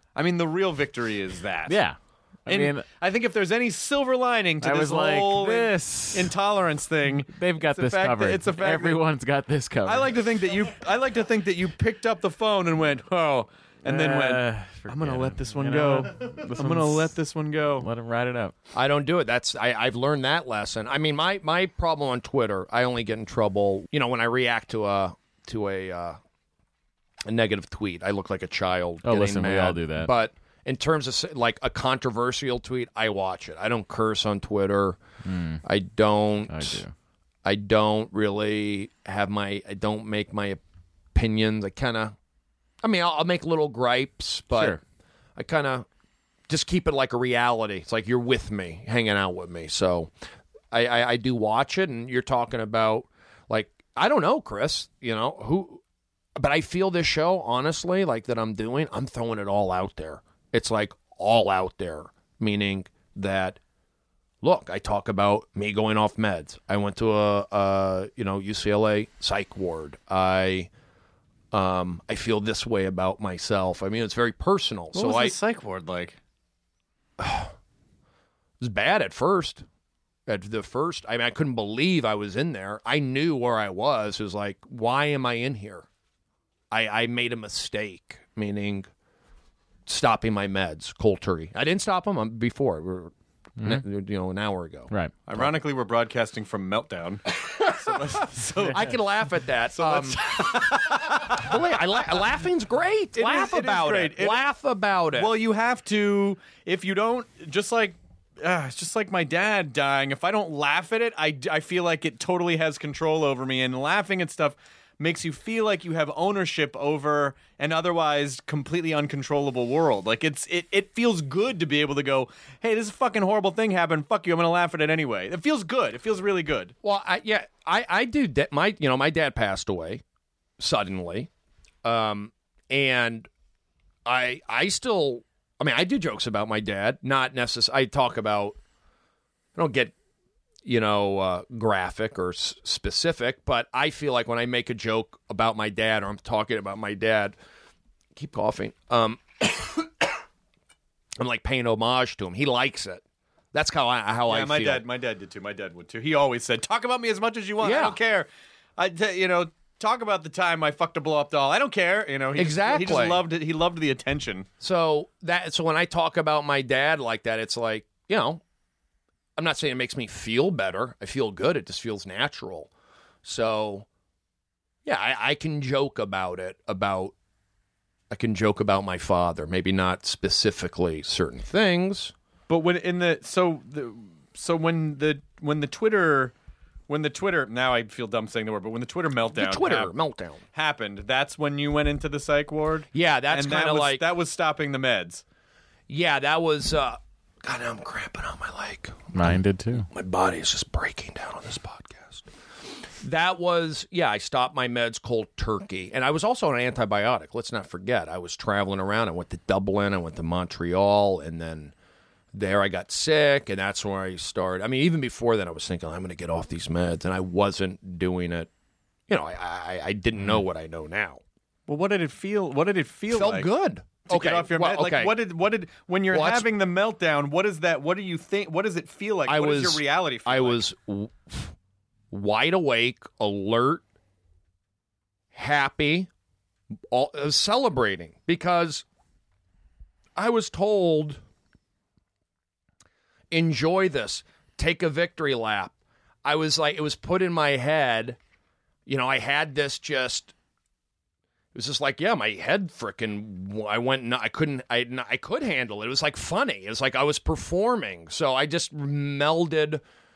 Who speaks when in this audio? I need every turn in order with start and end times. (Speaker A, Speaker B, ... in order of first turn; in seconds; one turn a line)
Speaker A: 0.1-1.8
Speaker B: 1.7-2.8
Speaker A: 2.5-9.0
Speaker B: 4.6-6.3
Speaker B: 7.3-10.1
Speaker A: 9.8-17.9
Speaker B: 13.8-17.1
Speaker B: 17.8-18.5
Speaker C: 18.7-26.2
Speaker C: 27.2-35.0
Speaker B: 29.0-30.1
Speaker B: 35.2-35.6
Speaker C: 35.6-36.8
Speaker B: 36.5-36.9
Speaker C: 37.4-40.6
Speaker C: 41.1-42.1
Speaker C: 42.8-44.8
Speaker B: 44.5-44.8
Speaker C: 45.4-45.9
Speaker C: 46.5-50.1
Speaker C: 50.7-55.8
Speaker C: 56.4-63.6
Speaker C: 64.4-70.7
Speaker C: 71.5-75.3
Speaker A: 74.9-76.2
Speaker C: 77.2-77.5
Speaker C: 78.6-79.6
Speaker C: 80.3-85.9
Speaker C: 86.7-88.9
Speaker C: 89.8-94.9
Speaker A: 95.3-98.9
Speaker C: 97.6-97.9
Speaker C: 98.7-105.3
Speaker A: 99.7-101.6
Speaker A: 103.2-104.4
Speaker A: 105.2-126.7
Speaker C: 126.8-130.0
Speaker C: 130.6-131.3
Speaker C: 131.8-133.3
Speaker C: 134.0-138.6
Speaker C: 139.5-139.9
Speaker C: 140.6-147.4
Speaker C: 148.1-150.1
Speaker C: 151.2-154.8
Speaker A: 154.3-164.5
Speaker C: 157.6-158.0
Speaker C: 162.3-163.2
Speaker C: 164.6-168.4
Speaker C: 169.3-172.7
Speaker C: 173.2-173.9
Speaker C: 174.8-177.1
Speaker C: 178.1-182.1
Speaker A: 182.5-186.3
Speaker A: 186.9-189.9
Speaker C: 189.3-190.4
Speaker A: 190.5-195.2
Speaker C: 192.9-194.0
Speaker C: 195.9-202.3
Speaker B: 199.1-199.9
Speaker C: 202.9-211.7
Speaker C: 212.3-218.5
Speaker C: 219.1-221.2
Speaker A: 221.7-223.5
Speaker C: 223.1-225.1
Speaker A: 224.1-230.6
Speaker C: 226.1-226.5
Speaker C: 229.2-231.5
Speaker C: 232.1-233.8
Speaker C: 235.3-236.1
Speaker C: 236.9-238.8
Speaker C: 240.2-241.2
Speaker C: 243.3-248.2
Speaker C: 248.8-250.3
Speaker C: 251.5-259.8